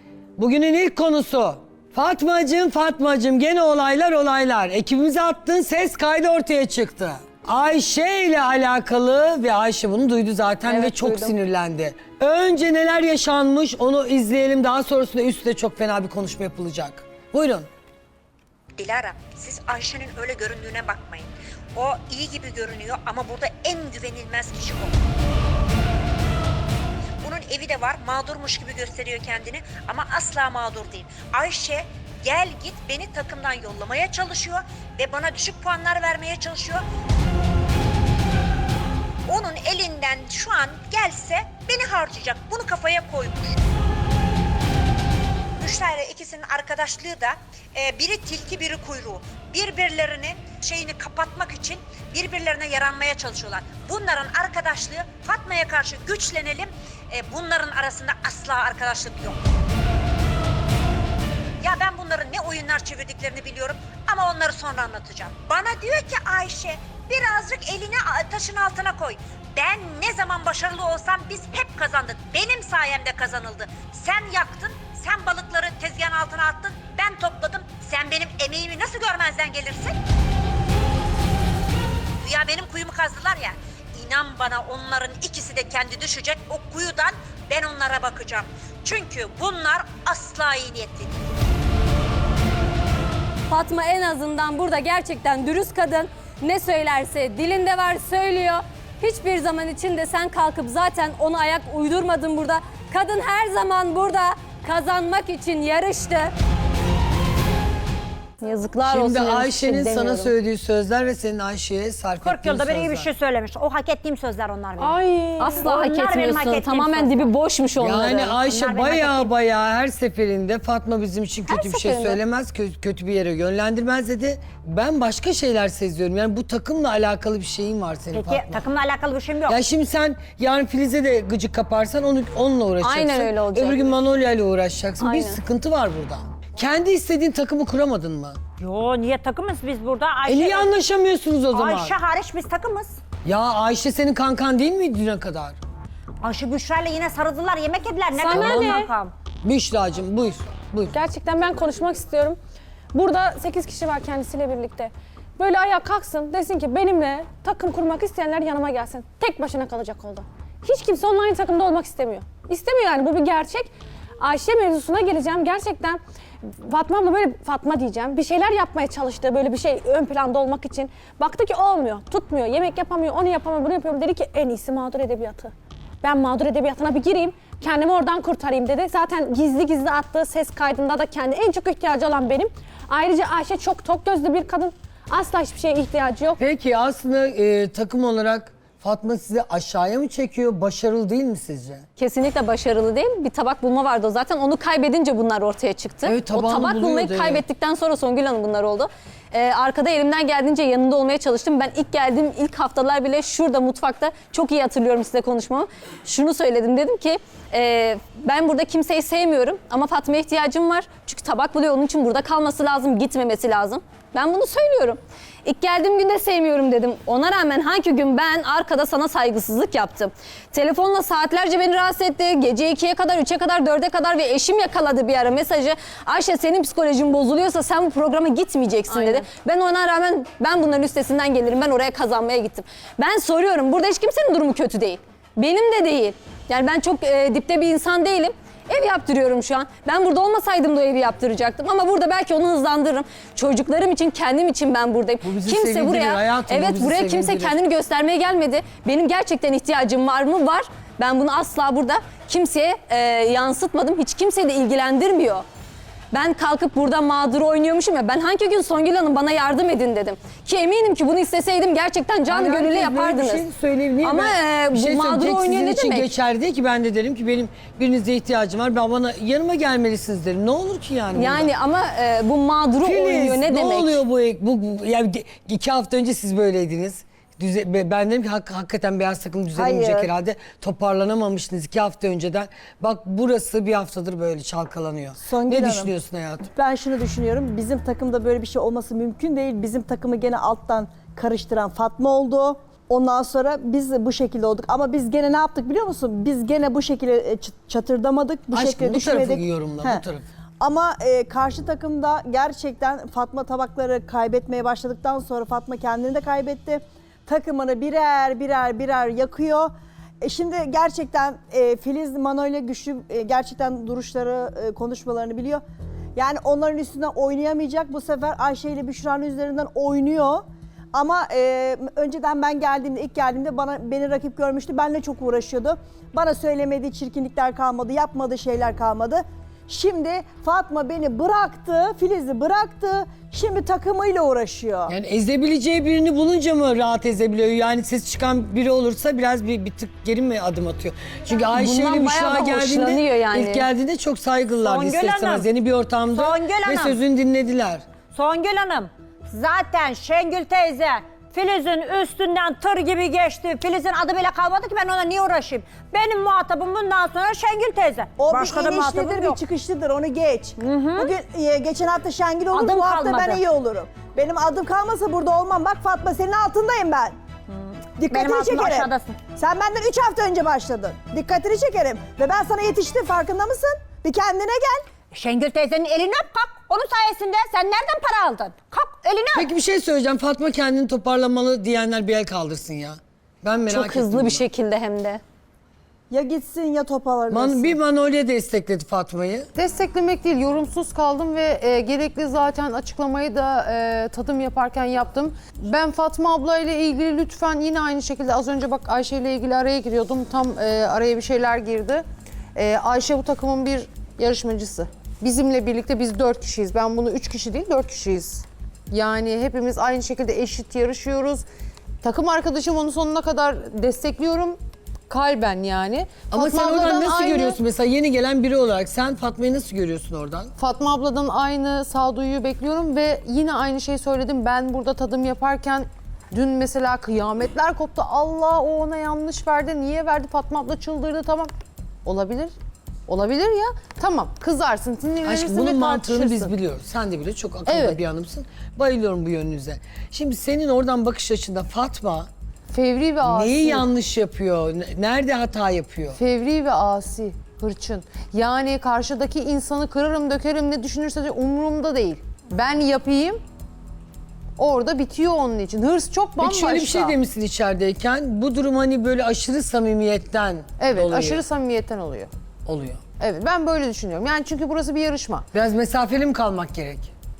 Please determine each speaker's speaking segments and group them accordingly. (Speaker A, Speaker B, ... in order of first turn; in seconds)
Speaker A: 0.4-17.7, 108.8-113.1, 117.8-128.7, 129.5-138.4, 140.2-141.9, 143.2-145.6, 148.3-148.8, 149.4-150.9, 186.4-191.8, 196.0-197.4, 245.2-247.6, 262.3-271.5, 272.8-286.5, 298.5-300.3, 334.9-347.8, 379.3-384.5, 387.3-389.5, 416.3-420.5, 435.2-442.3, 443.2-446.2, 456.4-461.4, 462.6-463.0, 465.5-467.1
Speaker B: 10.7-11.3, 114.8-115.7, 121.5-122.2, 148.2-148.8, 150.9-152.4, 152.9-186.4
Speaker C: 18.8-24.9, 27.2-36.8, 39.3-43.6, 45.6-59.4, 61.6-80.0, 82.2-91.2
Speaker D: 93.5-106.3, 108.4-110.3, 115.8-118.4, 132.8-133.9, 135.0-135.4, 192.0-255.4, 256.1-263.4, 264.0-266.1, 271.1-274.0, 341.5-343.7, 383.7-385.2
Speaker E: 112.2-117.3, 118.4-119.3, 128.1-129.6, 138.6-140.7, 141.5-143.0, 146.2-149.1, 344.6-345.4, 346.1-347.0, 348.1-359.4, 360.6-361.1, 362.5-363.4, 367.5-369.1, 375.1-379.5
Speaker F: 228.9-229.3, 389.5-411.4, 412.0-417.6, 420.6-431.5, 432.0-432.5, 433.1-436.5, 437.6-438.0, 442.7-443.9, 446.1-453.4, 454.6-457.1, 460.8-462.3, 463.2-465.4
Speaker G: 279.5-280.1, 285.2-285.9, 286.5-300.0, 300.6-309.7, 310.2-315.6, 316.1-334.9, 358.2-367.1, 368.0-374.8, 386.1-387.8